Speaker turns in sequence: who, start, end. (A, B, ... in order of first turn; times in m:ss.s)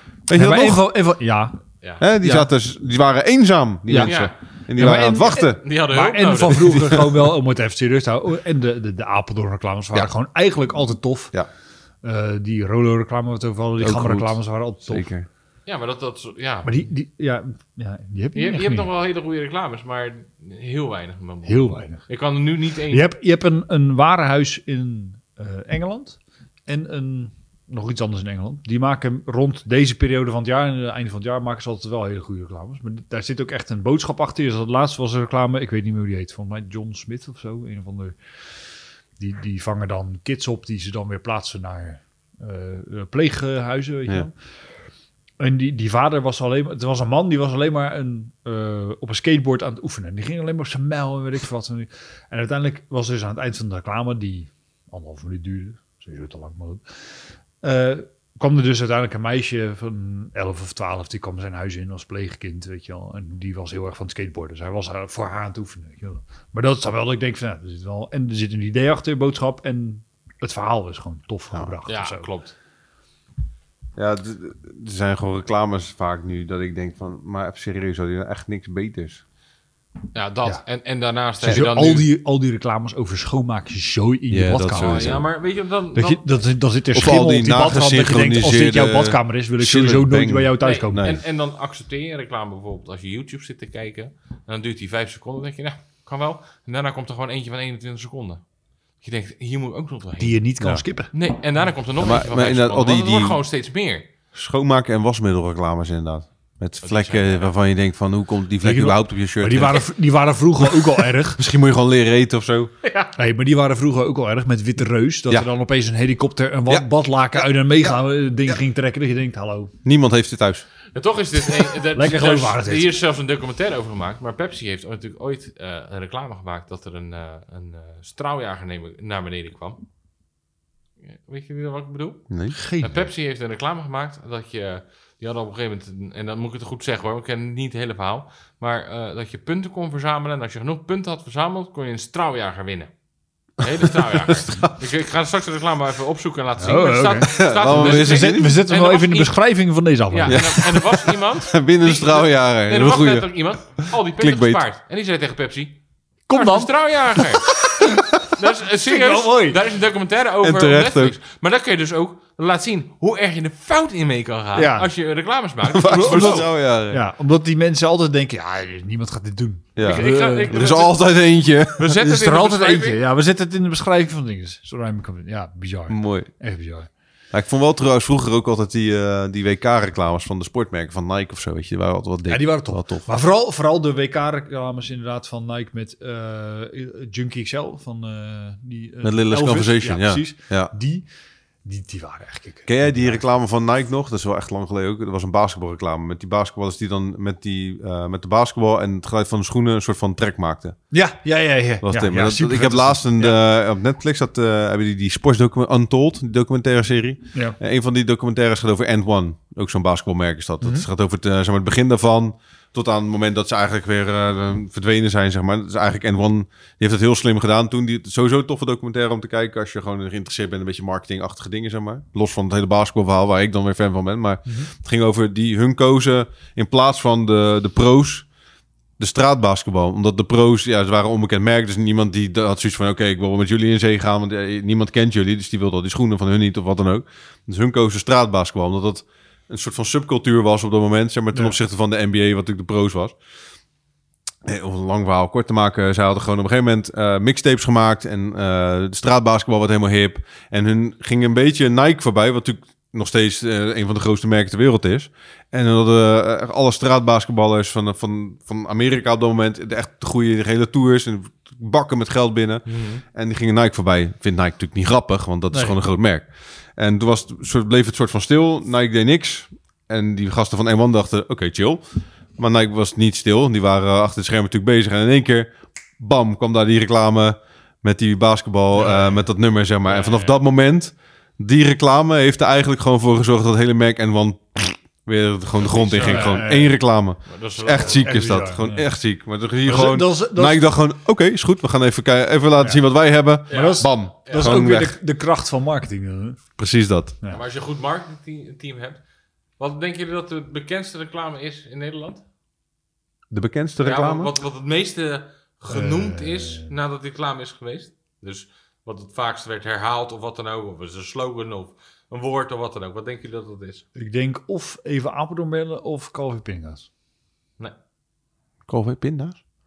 0:00.3-0:00.8 A
0:00.3-0:01.6 B
0:02.0-0:05.6 A
0:02.2-0:02.5 B
0:03.9-0:04.1 B
0:04.0-0:07.0 C
0:04.8-0:11.3 B
0:06.6-0:07.1 A
0:12.0-0:15.1 B
0:13.8-0:15.2 A
0:15.7-0:16.7 C
0:16.6-0:18.9 B
0:18.3-0:23.1 C
0:21.4-0:22.0 B
0:22.9-0:38.1 B
0:39.2-0:44.3 B
0:45.4-0:56.8 B
0:57.6-1:12.3 B
1:11.9-1:12.5 C
1:14.0-1:19.2 A
1:20.1-1:22.1 C
1:21.4-1:25.2 B
1:24.3-1:25.2 A
1:24.7-1:26.2 C
1:25.9-1:31.0 B
1:26.9-1:31.2 A
1:30.6-1:38.4 C
1:39.0-1:40.4 C
1:40.2-1:41.1 B
1:41.1-1:44.1 C
1:42.0-1:43.4 A
1:44.3-1:49.8 A
1:46.8-1:47.5 C
1:48.6-1:51.4 B
1:50.7-1:52.7 A
1:53.0-1:59.7 B
1:59.8-2:00.6 A
2:00.9-2:09.8 C
2:01.9-2:02.9 B
2:11.0-2:22.9 C
2:12.3-2:12.6 A
2:12.5-2:13.0 B
2:23.6-2:29.4 C
2:23.8-2:24.7 A
2:26.6-2:30.6 B
2:27.3-2:28.6 A
2:30.1-2:35.8 C
2:30.2-2:33.4 A
2:33.9-2:34.6 A
2:36.3-2:39.6 B
2:36.3-2:37.5 C
2:38.3-2:46.5 C
2:40.4-2:41.2 A
2:44.5-2:44.9 B
2:45.6-2:47.0 A
2:45.8-2:50.6 B
2:49.8-2:52.0 A
2:49.8-2:51.0 C
2:51.8-2:53.0 C
2:52.0-2:56.9 B
2:55.9-2:56.3 A
2:57.3-3:03.1 A
3:02.3-3:11.0 B
3:09.0-3:10.7 A
3:11.6-3:13.2 B
3:12.7-3:20.8 A
3:20.9-3:23.3 B
3:21.8-3:48.3 A
3:30.6-3:30.8 B
3:44.4-3:44.7 B
3:49.0-4:03.2 A
4:04.4-4:31.8 A
4:22.7-4:23.0 C
4:25.5-4:25.8 B
4:32.4-4:54.9 A
4:38.7-4:39.2 B
4:39.8-4:40.4 C
4:45.6-4:46.5 C
4:46.0-4:46.8 B
4:47.3-4:48.2 C
4:47.8-4:48.8 B
4:49.6-4:50.6 B
4:53.5-4:56.4 B
4:53.5-4:54.6 C
4:56.6-4:57.2 A
4:57.3-4:59.0 C
4:59.6-5:02.2 C
5:03.3-5:04.3 A
5:03.8-5:13.8 C
5:05.7-5:06.7 B
5:14.0-5:16.9 B
5:18.7-5:19.4 A